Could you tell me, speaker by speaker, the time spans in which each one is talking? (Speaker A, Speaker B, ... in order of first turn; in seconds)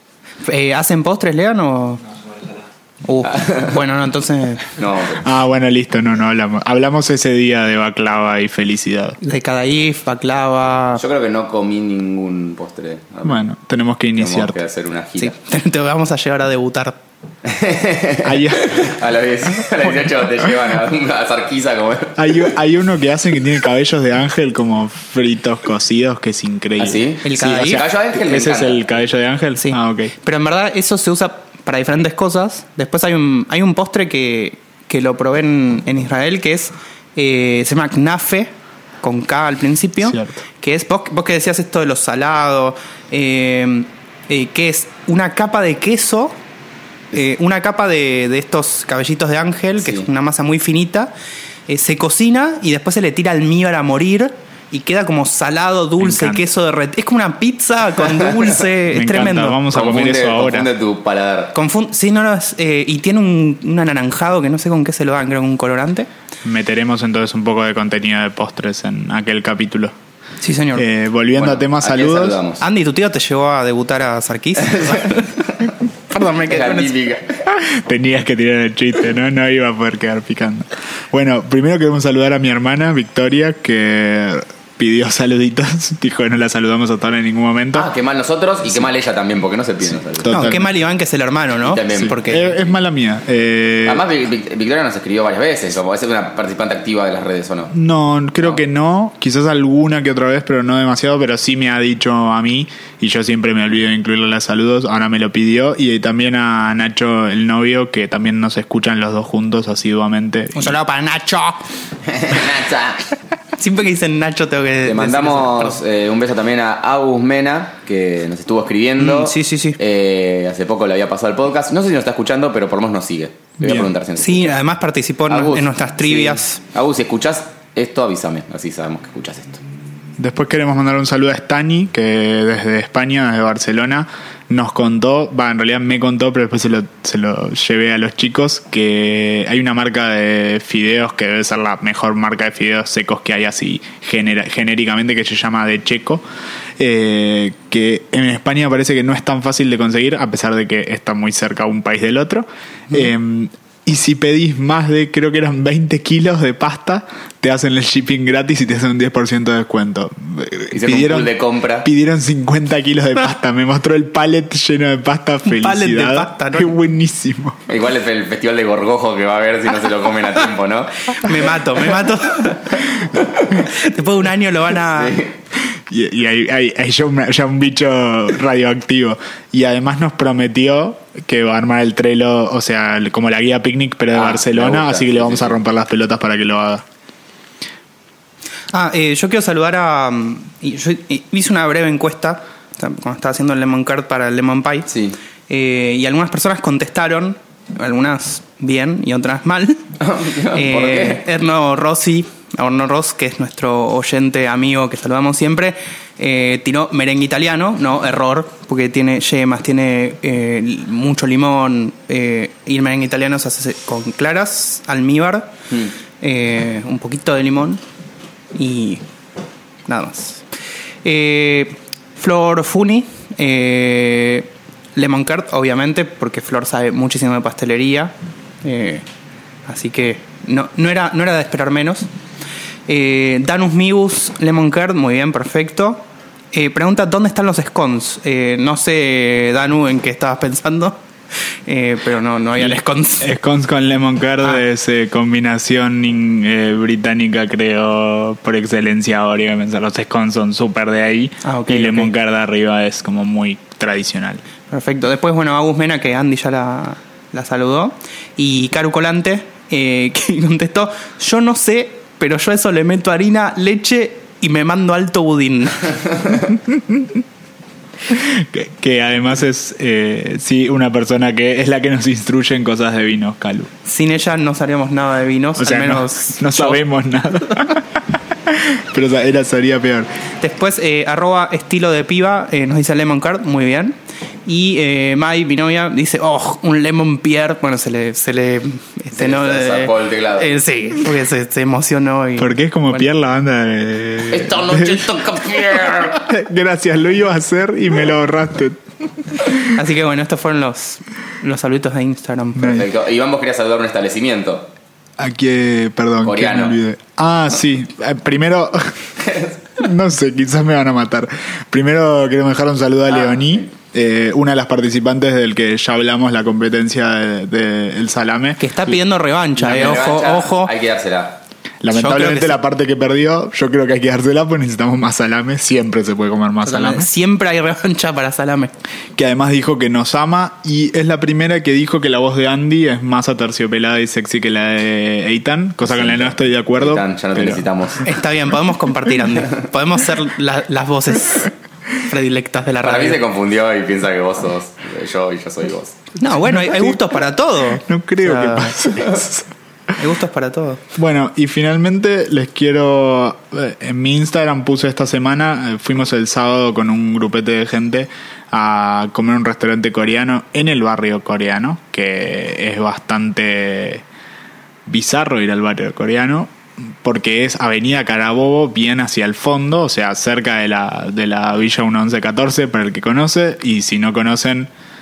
Speaker A: 0.4-2.0, 3.0-4.8, 9.2-11.0, 15.2-17.0, 27.2-27.8, 29.6-38.5, 39.0-46.4, 47.1-51.1, 51.7-59.6, 61.5-66.1, 70.4-70.8, 72.6-75.3, 76.1-76.9, 90.3-92.6, 110.5-111.7, 113.6-115.8, 119.0-119.8, 124.2-126.6, 165.4-166.7, 171.1-172.9, 173.6-175.2, 188.7-194.9, 195.5-199.9, 200.5-215.5, 216.2-217.8, 218.5-219.0, 219.8-220.4, 221.0-229.0, 229.7-232.1, 232.9-241.0, 241.7-243.3, 251.4-252.1, 254.7-266.4, 273.8-276.8, 280.4-293.1, 299.6-302.8, 318.6-320.7, 321.9-322.5, 326.6-328.7, 338.0-343.2, 346.2-348.7, 350.0-350.8
Speaker B: 3.3-3.6, 4.7-5.3, 10.9-13.5, 14.2-15.3, 17.4-22.5, 26.8-28.8, 49.8-50.1, 59.7-61.5, 71.3-72.6, 74.7-75.2, 76.4-77.4, 87.7-90.5, 91.6-92.2, 93.8-97.7, 112.0-113.0, 114.8-124.5, 125.3-129.6, 160.7-161.9, 167.7-171.3, 174.9-175.3, 184.1-185.6, 194.9-195.2, 200.0-201.2, 289.1-290.5, 294.3-296.3, 302.7-304.7, 306.2-306.8, 313.2-313.6, 319.6-321.4, 335.8-338.1, 342.8-345.9
Speaker C: 5.2-9.2, 13.2-14.6, 18.2-18.9, 22.2-30.1, 40.0-40.4, 56.0-56.4, 58.9-60.7, 66.4-69.9, 70.7-72.4, 77.5-87.9, 90.2-90.7, 92.0-94.0, 97.7-110.8, 123.6-123.9, 130.2-146.2, 146.8-167.6, 175.9-186.8, 242.6-254.4, 266.5-267.2, 268.1-273.7, 275.6-280.1, 292.4-295.1, 296.1-298.8, 302.6-302.9, 305.2-318.6, 321.8-327.1, 329.1-337.6, 346.2-347.2, 347.7-349.5, 350.9-364.0, 364.9-374.7